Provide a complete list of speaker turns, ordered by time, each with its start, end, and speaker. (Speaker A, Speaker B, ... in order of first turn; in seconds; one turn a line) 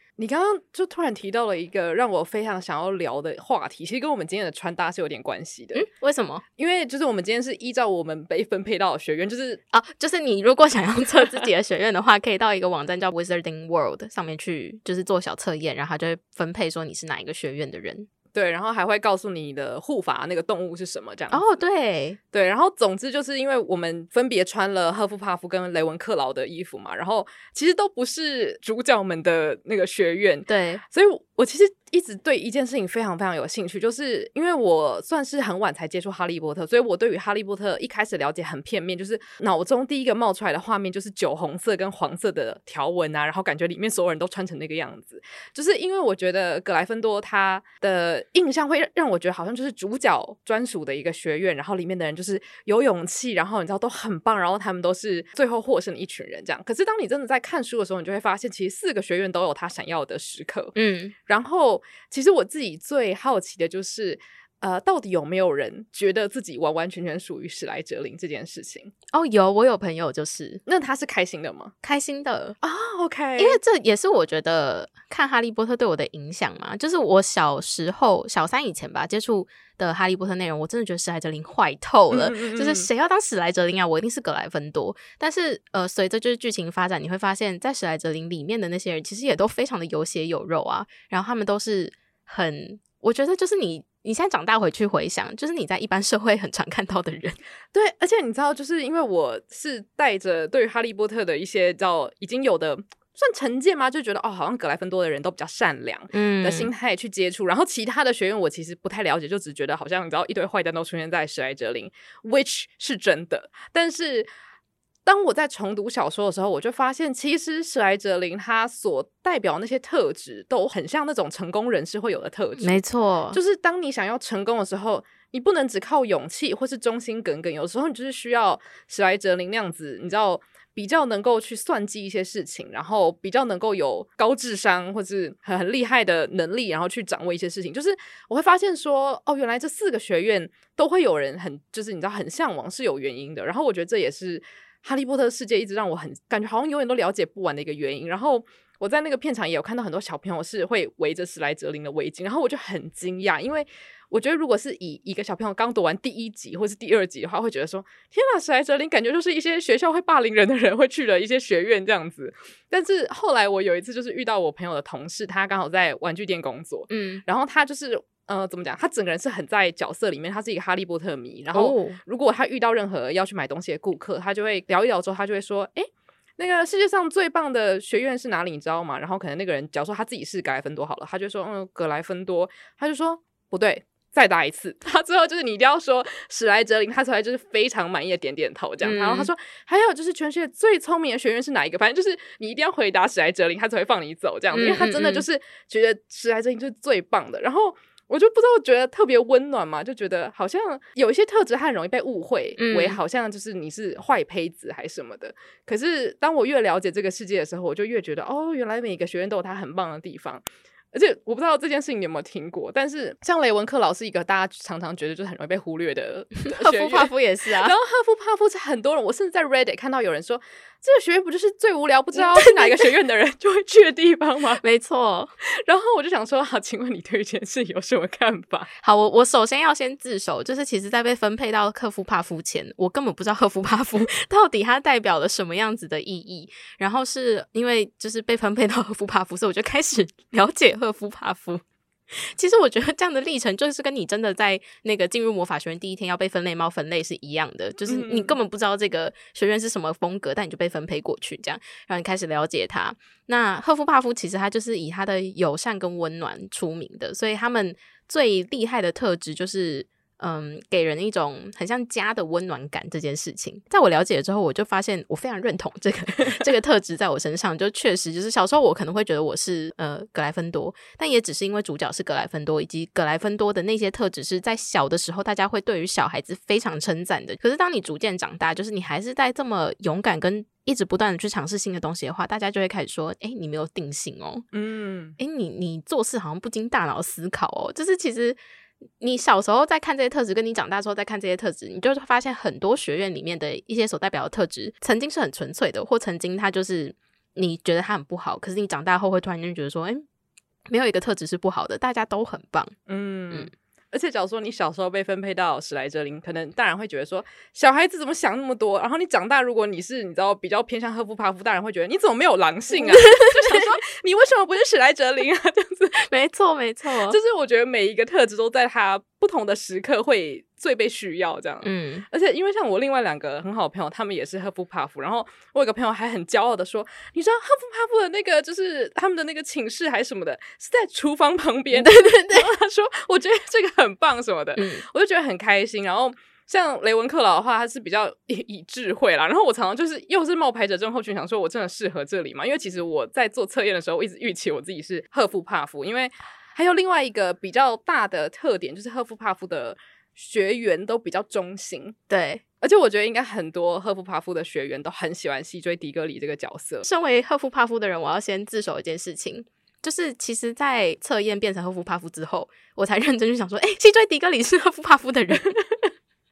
Speaker A: 0.2-5.8
Speaker B: 5.7-6.4
Speaker A: 6.6-9.6
Speaker B: 9.7-18.1
Speaker A: 18.3-21.4
Speaker B: 21.3-22.2
Speaker A: 22.3-60.7
Speaker B: 30.5-30.8
Speaker B: 60.7-61.1
Speaker A: 61.3-68.9
Speaker B: 69.1-70.6
Speaker A: 70.7-71.7
Speaker B: 71.8-72.6
Speaker A: 72.6-73.6
Speaker B: 73.4-97.4
Speaker A: 82.1-82.9
Speaker A: 97.7-114.3
Speaker B: 106.1-106.7
Speaker A: 115.0-122.8
Speaker B: 122.6-123.4
Speaker A: 123.3-224.6
Speaker B: 166.9-167.2
Speaker B: 171.5-172.0
Speaker B: 188.8-189.3
Speaker B: 194.5-195.2
Speaker B: 202.6-203.0
Speaker B: 216.4-217.7
Speaker B: 222.1-222.9
Speaker B: 224.6-225.3
Speaker A: 225.4-228.7
Speaker B: 228.8-284.4
Speaker A: 247.8-248.4
Speaker A: 284.5-285.2
Speaker B: 285.2-288.4
Speaker B: 289.0-300.0
Speaker B: 300.7-302.7
Speaker A: 302.9-316.0
Speaker B: 312.7-313.7
Speaker B: 316.0-317.2
Speaker A: 317.1-352.0
Speaker B: 321.6-322.1
Speaker B: 331.7-332.5
Speaker B: 334.6-334.8
Speaker B: 352.1-352.4
Speaker A: 352.6-356.8
Speaker B: 356.8-365.6